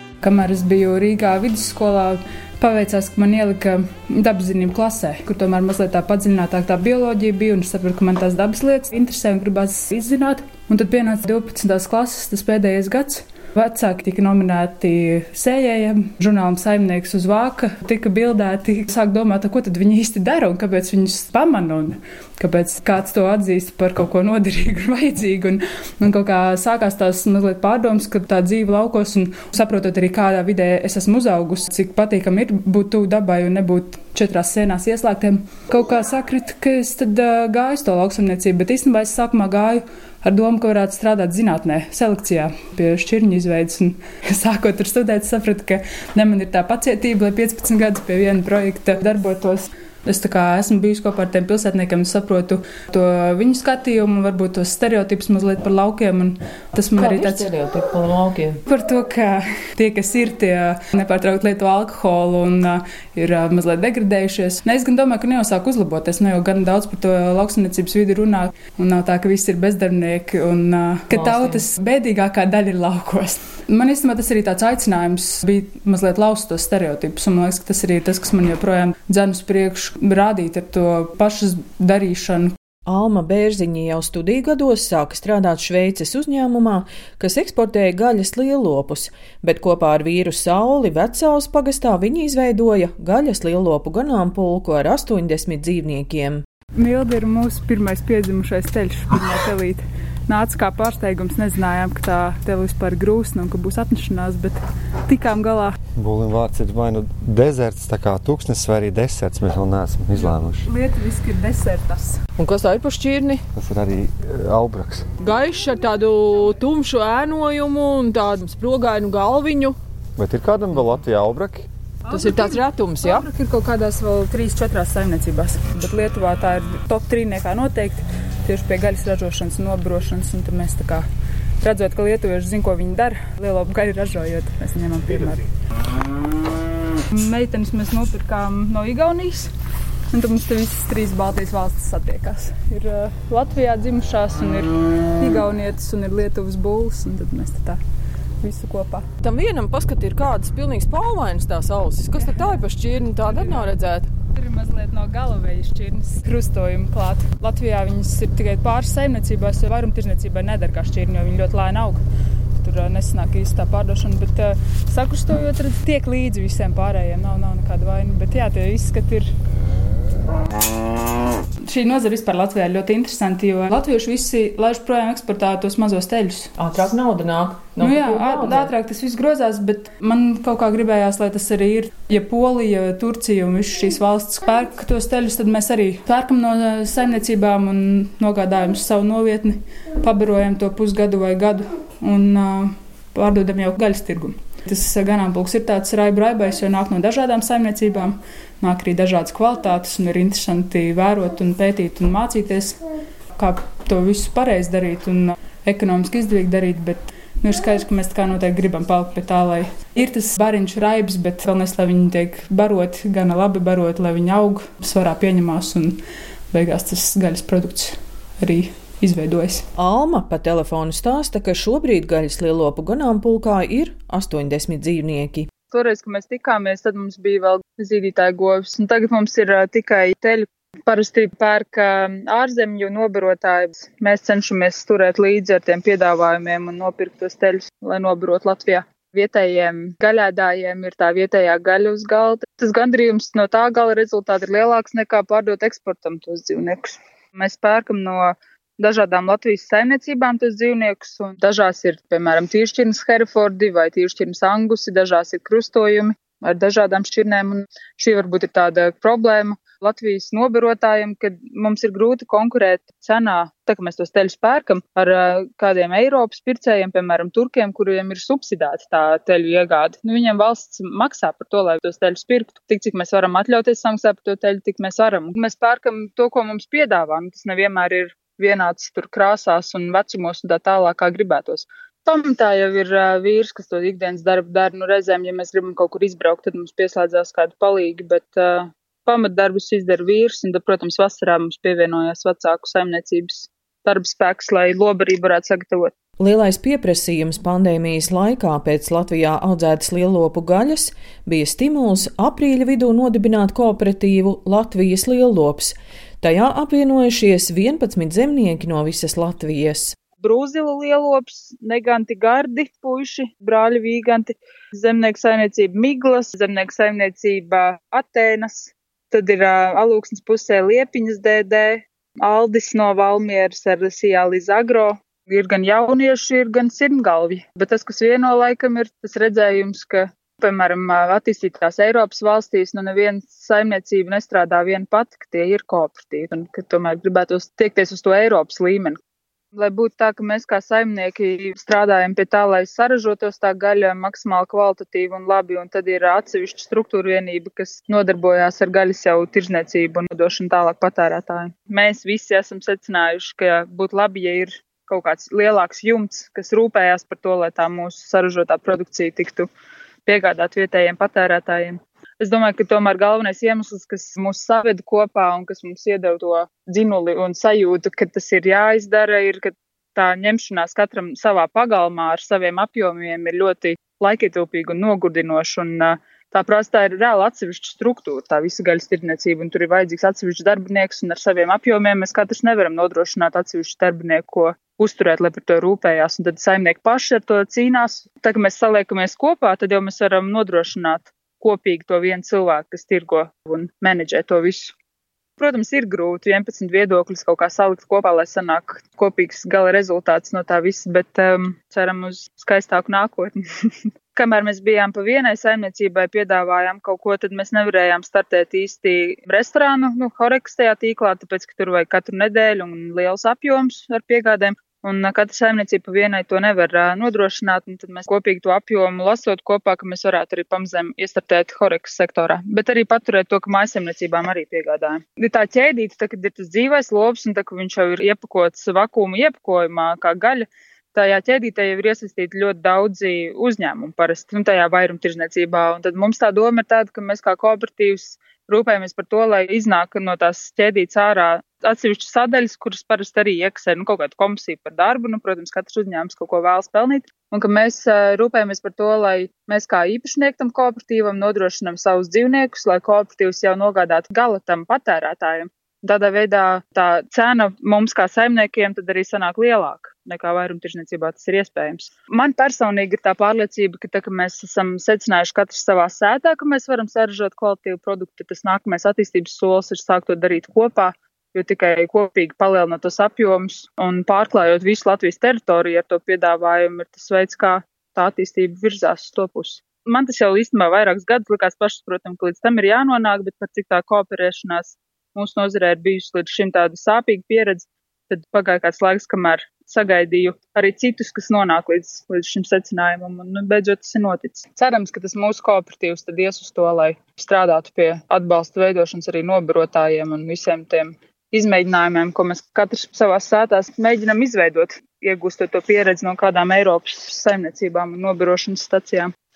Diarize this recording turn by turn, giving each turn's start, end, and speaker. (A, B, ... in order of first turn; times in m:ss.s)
0:00.2-0:57.5 A
0:57.0-0:58.6 B
0:58.7-1:22.5 A
1:11.1-1:11.6 B
1:22.9-1:36.4 B
1:36.8-1:45.8 A
1:46.0-1:50.7 C
1:50.2-1:52.2 A
1:52.4-1:53.4 B
1:53.6-1:55.1 C
1:55.2-1:59.8 B
2:00.2-2:01.7 C
2:02.1-2:03.3 B
2:02.1-2:11.0 A
2:11.6-2:15.4 A
2:17.1-2:19.5 A
2:20.1-2:27.8 A
2:28.4-2:29.0 A
2:29.2-2:34.1 B
2:32.1-2:32.6 A
2:33.2-2:33.7 A
2:34.3-2:42.0 A
2:42.6-2:49.3 A
2:51.7-2:56.5 A
2:56.6-2:58.7 B
2:57.8-3:22.8 A
3:23.4-3:36.0 A
3:36.5-3:39.6 A
3:39.8-3:45.5 B
3:45.7-4:55.9 D
4:56.2-5:09.9 B
5:10.2-5:39.0 D
5:39.5-5:59.5 D
6:00.1-6:34.8 D
6:35.4-6:43.4 D
6:44.1-8:29.1 D